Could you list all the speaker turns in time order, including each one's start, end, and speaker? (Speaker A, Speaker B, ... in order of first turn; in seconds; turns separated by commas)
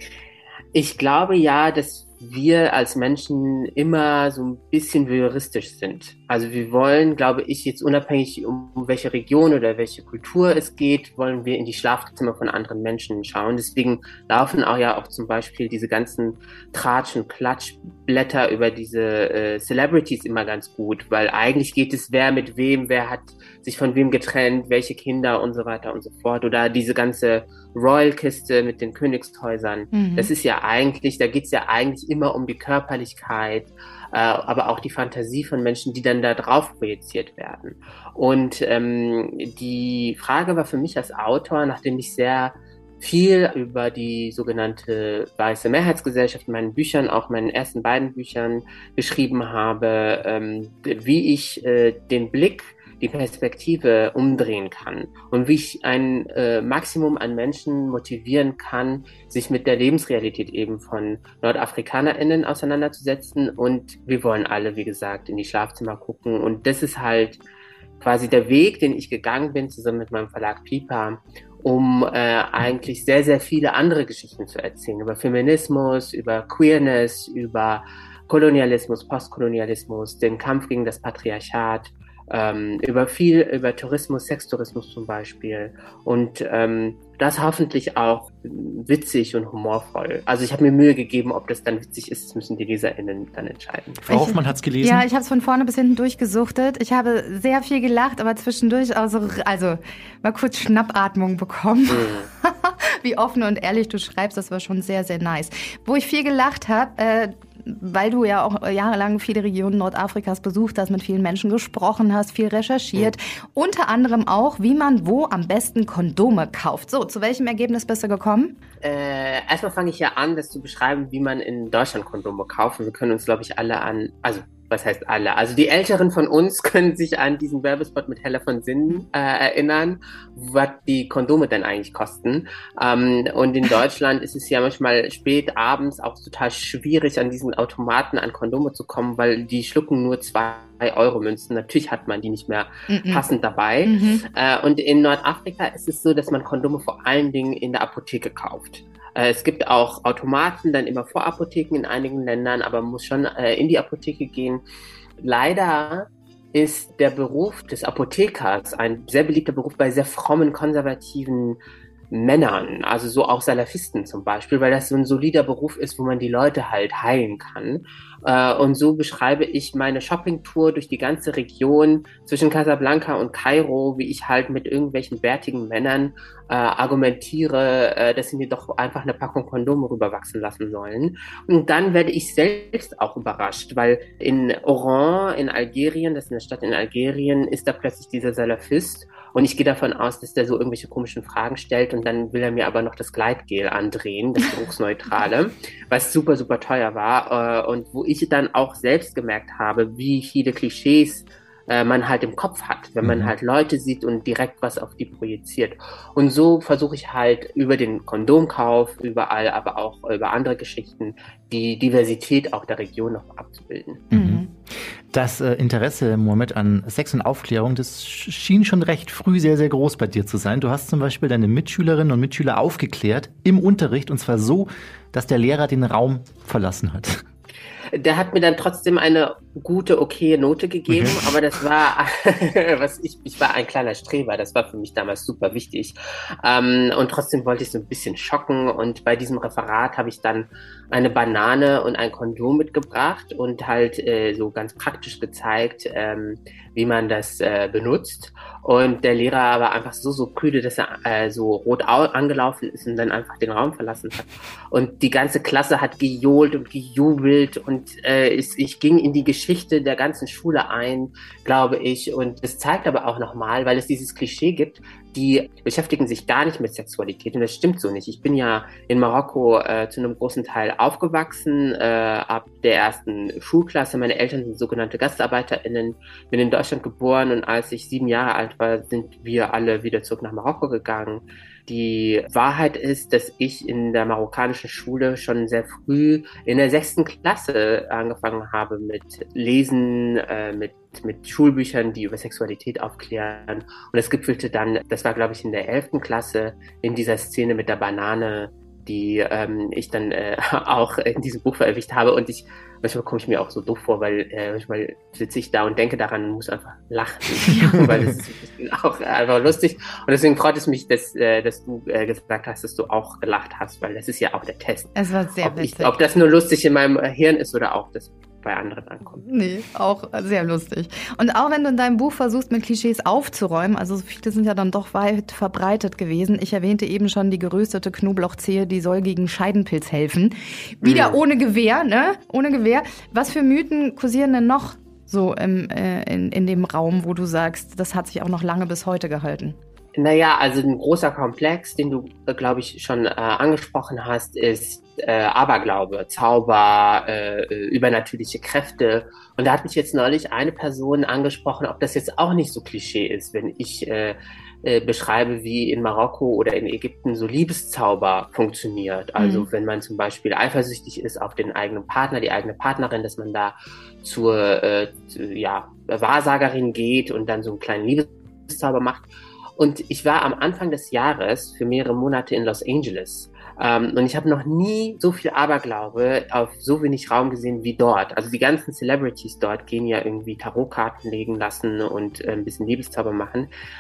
Speaker A: 0.7-67.4, Speaker B: 29.9-30.3, Speaker A: 68.0-94.0, Speaker C: 94.0-95.0, Speaker B: 94.1-118.5, Speaker A: 101.9-102.3, Speaker A: 118.8-154.6, Speaker B: 142.9-143.2, Speaker B: 143.8-144.2, Speaker A: 155.2-161.6, Speaker A: 162.1-214.1, Speaker C: 203.0-203.3, Speaker C: 214.1-214.4, Speaker B: 214.1-214.5, Speaker C: 215.1-227.2, Speaker A: 227.9-319.2, Speaker B: 314.9-315.9, Speaker B: 319.2-339.6, Speaker A: 330.8-331.2, Speaker A: 340.0-383.5, Speaker B: 359.2-359.5